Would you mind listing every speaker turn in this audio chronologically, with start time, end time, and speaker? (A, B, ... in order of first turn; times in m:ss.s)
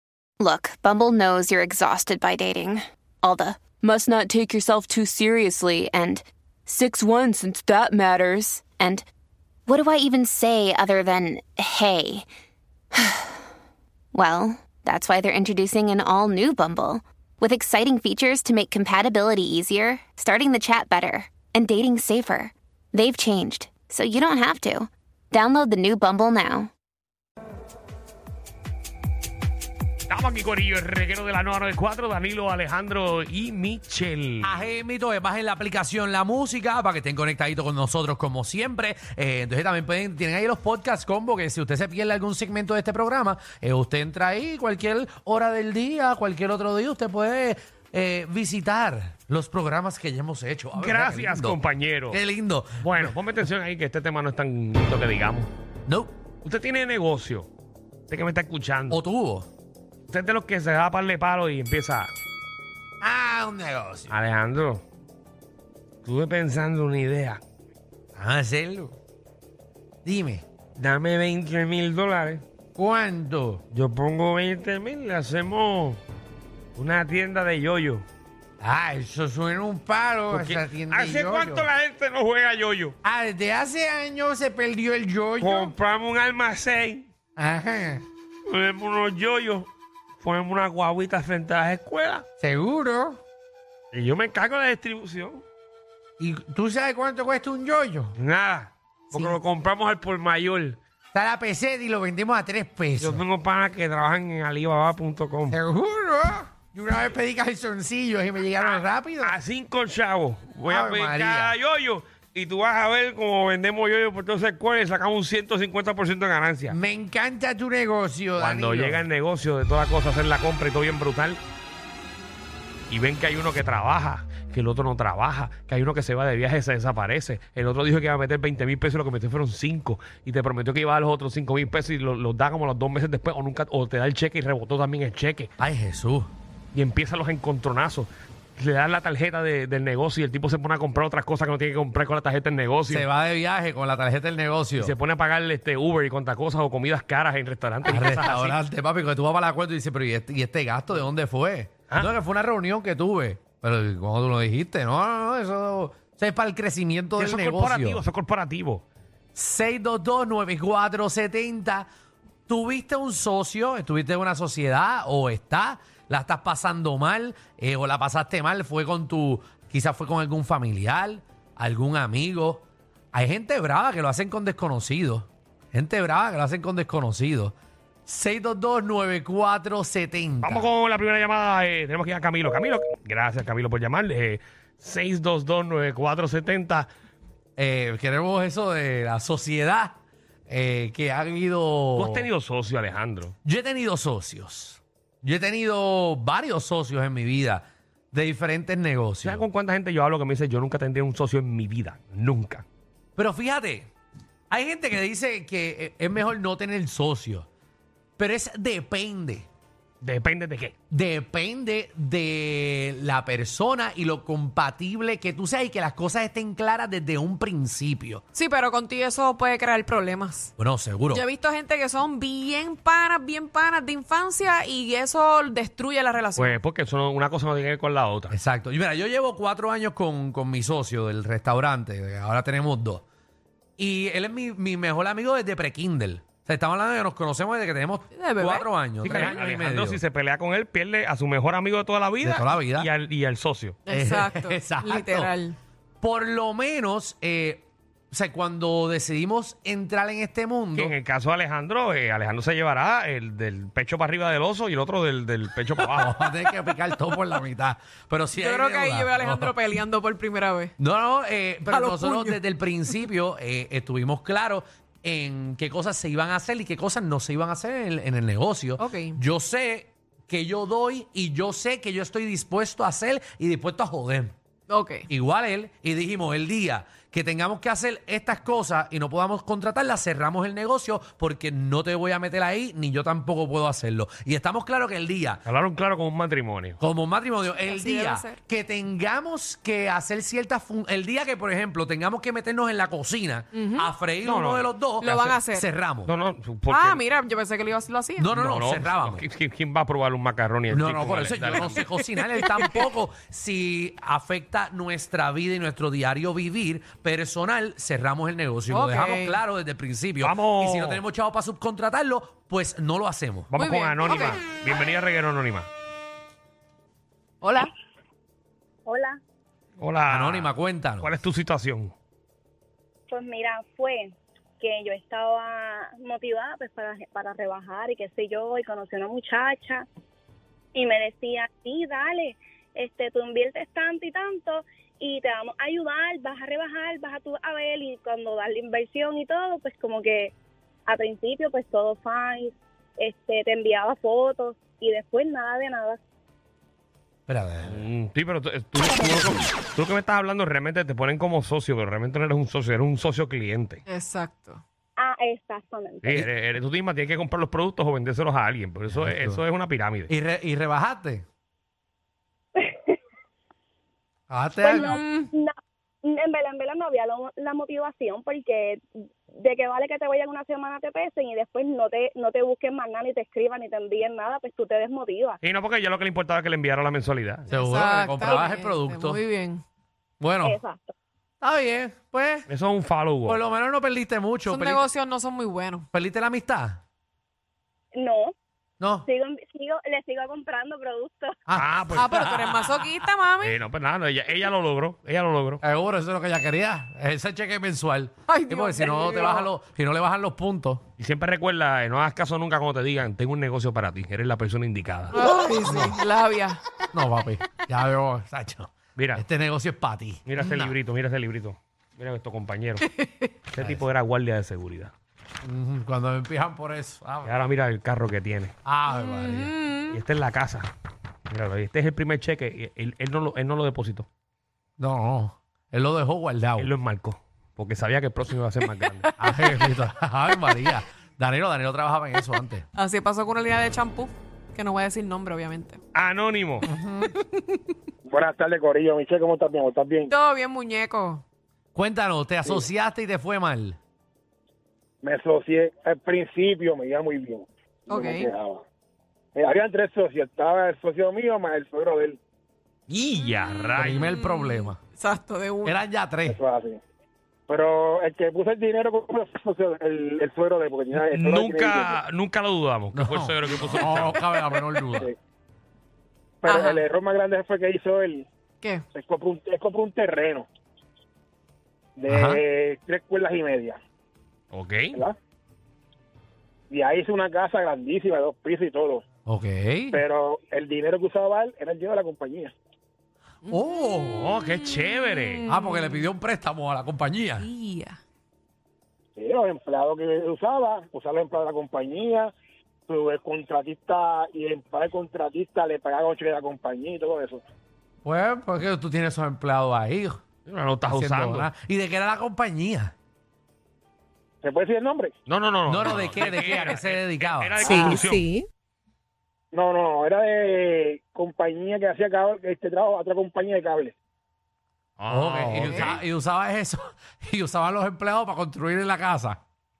0:00.4-0:09.0 A
0:09.7-0:12.2 A
0:12.9-0:13.4 A
0:14.1-0:26.7 A
0:30.1-0:34.6 B
0:34.4-0:53.2 C
0:50.8-0:52.2 B
0:52.8-0:55.5 B
0:55.9-0:56.1 C
0:56.4-0:57.5 B
0:58.1-0:59.0 B
0:58.9-0:59.5 C
1:00.1-1:02.1 B
1:03.0-1:04.1 C
1:04.1-1:04.8 B
1:06.0-1:07.4 B
1:08.2-1:08.9 C
1:10.0-1:10.4 C
1:10.8-1:12.4 B
1:12.8-1:13.6 C
1:13.7-1:16.0 B
1:16.8-1:18.0 B
1:18.6-1:21.7 C
1:20.3-1:23.0 B
1:23.0-1:25.7 C
1:25.4-1:27.1 B
1:27.4-1:28.0 C
1:28.5-1:29.7 B
1:30.2-1:32.2 B
1:32.4-1:33.2 C
1:33.9-1:35.4 B
1:36.2-1:38.1 C
1:38.2-1:40.8 B
1:41.1-1:43.2 C
1:43.0-1:45.6 B
1:45.5-1:49.4 C
1:48.6-1:56.8 B
1:50.6-1:51.6 C
1:56.7-1:59.0 C
1:58.4-2:01.4 B
2:02.9-2:15.5 B
2:15.6-2:16.3 C
2:16.7-2:23.1 B
2:22.9-2:24.9 C
2:24.8-2:28.6 B
2:27.8-2:38.0 C
2:37.2-2:38.8 B
2:39.3-2:41.9 C
2:42.5-2:57.5 C
2:58.0-3:00.7 C
3:00.4-3:06.9 B
3:07.6-3:10.0 C
3:10.5-3:12.3 C
3:12.0-3:13.3 B
3:13.4-3:19.4 C
3:19.2-3:22.6 B
3:23.2-3:23.9 C
3:24.5-3:27.5 C
3:28.2-3:29.5 C
3:30.0-3:30.7 B
3:30.9-3:38.2 C
3:38.3-3:40.5 D
3:40.6-3:41.2 C
3:41.1-3:46.6 D
3:46.4-3:48.4 B
3:48.3-3:53.0 C
3:53.8-4:00.0 C
3:58.1-3:59.3 D
3:59.0-4:03.8 B
4:02.2-4:02.9 C
4:03.8-4:05.6 D
4:03.9-4:05.3 C
4:06.0-4:10.9 C
4:10.8-4:16.3 B
4:15.8-4:19.5 C
4:18.4-4:20.7 D
4:20.8-4:34.3 C
4:21.7-4:22.4 D
4:28.8-4:29.2 D
4:34.7-4:35.1 D
4:35.1-4:45.4 C
4:45.4-4:46.8 B
4:46.8-4:56.1 C
4:47.5-4:48.4 D
4:53.5-4:53.9 D
4:54.2-4:55.4 B
4:55.0-4:55.7 D
4:56.0-4:57.0 B
4:56.7-4:58.3 D
4:58.2-4:59.2 C
4:58.3-5:02.0 B
5:00.7-5:13.5 C
5:08.7-5:09.4 D
5:10.2-5:11.0 B
5:13.5-5:15.7 B
5:13.6-5:14.4 D
5:17.4-5:17.7 D
5:18.9-5:19.2 E
5:19.8-5:21.9 B
5:20.1-5:21.1 C
5:23.1-5:24.0 E
5:24.6-5:29.8 E
5:30.7-5:40.3 E
5:40.9-5:42.5 E
5:43.0-5:46.0 E
5:47.3-5:47.8 C
5:47.7-5:53.8 B
5:53.9-5:54.6 D
5:55.0-5:56.0 E
5:56.0-6:00.1 B
5:58.9-5:59.4 C
6:00.1-6:01.2 C
6:04.3-6:05.0 C
6:04.7-6:05.5 E
6:04.8-6:05.3 D
6:06.1-6:08.8 E
6:09.4-6:15.3 E
6:15.4-6:17.5 B
6:17.5-6:19.2 C
6:17.5-6:19.6 D
6:20.2-6:20.6 C
6:20.4-6:20.9 E
6:21.4-6:22.5 C
6:22.5-6:23.4 B
6:23.2-6:24.8 C
6:24.5-6:25.8 D
6:25.9-6:26.8 C
6:28.0-6:28.3 E
6:28.8-6:29.1 C
6:29.1-6:31.3 E
6:31.5-6:32.9 C
6:31.5-6:32.3 B
6:31.9-6:33.6 D
6:33.4-6:35.6 B
6:35.6-6:40.8 C
6:38.3-6:39.5 D
6:41.0-6:45.2 B
6:45.1-6:46.6 D
6:45.6-6:46.0 C
6:46.9-6:50.2 C
6:49.0-6:49.2 B
6:50.2-6:52.8 B
6:53.0-6:53.3 D
6:53.5-6:54.9 B
6:55.4-6:57.3 C
6:57.2-6:58.5 B
6:58.6-6:59.6 C
6:58.9-7:00.0 D
6:59.9-7:00.7 B
7:01.3-7:04.1 B
7:04.8-7:06.7 C
7:06.6-7:09.1 B
7:09.2-7:12.6 C
7:12.7-7:15.8 D
7:15.9-7:16.7 B
7:16.6-7:17.1 C
7:17.1-7:17.7 D
7:18.0-7:20.1 F
7:20.1-7:21.2 D
7:21.7-7:23.8 C
7:25.0-7:28.6 F
7:27.9-7:28.3 D
7:29.3-7:32.2 F
7:32.9-7:34.1 B
7:33.8-7:34.8 C
7:34.1-7:35.8 D
7:35.6-7:36.4 C
7:36.3-7:36.8 F
7:37.5-7:42.0 F
7:40.9-7:44.2 B
7:42.9-7:45.1 C
7:46.4-7:46.9 D
7:46.4-7:48.2 F
7:48.6-7:48.8 D
7:48.9-7:50.5 F
7:52.0-7:53.8 F
7:52.1-7:52.4 C
7:54.5-7:55.0 B
7:56.7-7:59.0 F
7:59.2-8:00.0 C
8:00.0-8:02.5 F
8:03.5-8:04.3 C
8:04.1-8:05.4 B
8:04.5-8:06.1 D
8:05.5-8:07.5 C
8:07.4-8:08.0 D
8:09.2-8:12.3 F
8:12.9-8:17.4 F
8:18.0-8:20.2 C
8:20.4-8:21.5 B
8:20.9-8:22.9 C
8:24.4-8:25.1 F
8:25.2-8:28.3 B
8:25.6-8:27.9 C
8:27.6-8:28.5 D
8:27.6-8:28.0 F
8:29.5-8:33.9 F
8:35.0-8:36.0 B
8:35.1-8:39.4 C
8:35.6-8:36.0 D